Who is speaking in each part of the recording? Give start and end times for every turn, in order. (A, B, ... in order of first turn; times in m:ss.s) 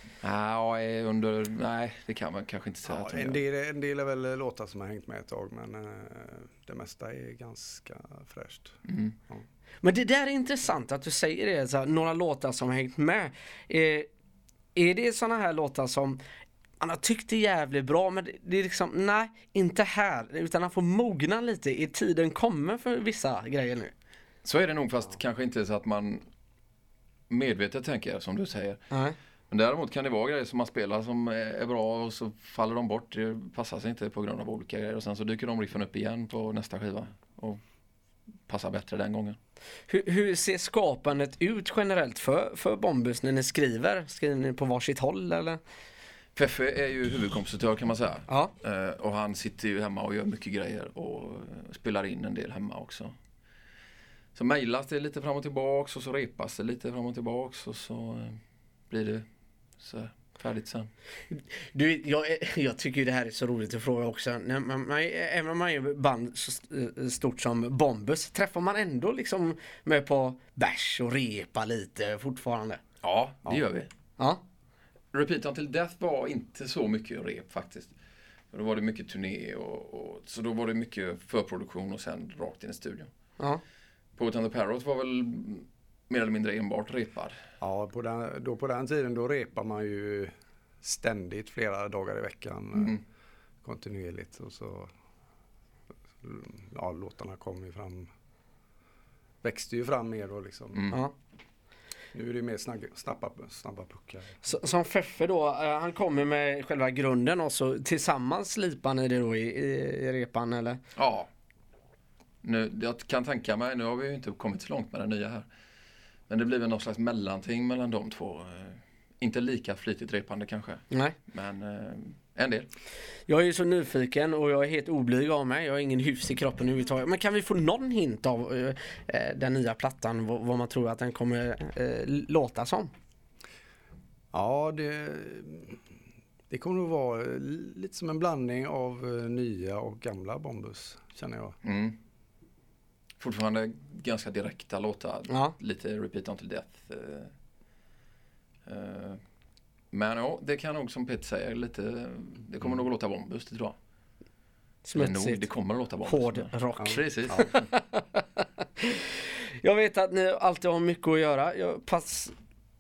0:00.2-0:03.4 A
0:02.8-0:08.8 B
0:08.8-0:09.1 A
0:09.8-0:14.1 C
0:14.8-0:16.2 C
0:16.8-0:23.9 C
0:24.4-0:26.2 A
0:27.3-0:28.8 A
0:28.9-0:29.2 C
0:29.5-0:37.6 A
0:38.5-0:39.4 A
0:39.9-0:45.6 C
0:46.4-0:53.1 A
0:54.4-0:58.4 A
0:58.9-0:59.2 A
0:59.8-1:00.9 A
1:01.3-1:12.8 C
1:13.0-1:13.9 A
1:15.1-1:17.9 A
1:18.5-1:23.1 A
1:24.2-1:27.4 A
1:27.6-1:33.0 B
1:33.6-1:34.9 B
1:36.2-1:38.1 B
1:39.4-1:40.9 B
1:42.1-1:44.3 B
1:44.4-1:50.8 C
1:51.0-1:51.3 A
1:52.4-1:55.5 A
1:56.3-2:02.7 A
2:00.9-2:01.2 C
2:03.3-2:12.9 C
2:14.3-2:15.8 B
2:16.5-2:21.6 B
2:21.6-2:22.0 A
2:23.2-2:27.3 A
2:25.3-2:25.6 C
2:28.7-2:29.2 A
2:29.9-2:33.8 A
2:34.8-2:35.5 C
2:34.9-2:37.7 A
2:36.0-2:39.0 C
2:36.8-2:37.4 B
2:39.6-2:42.3 C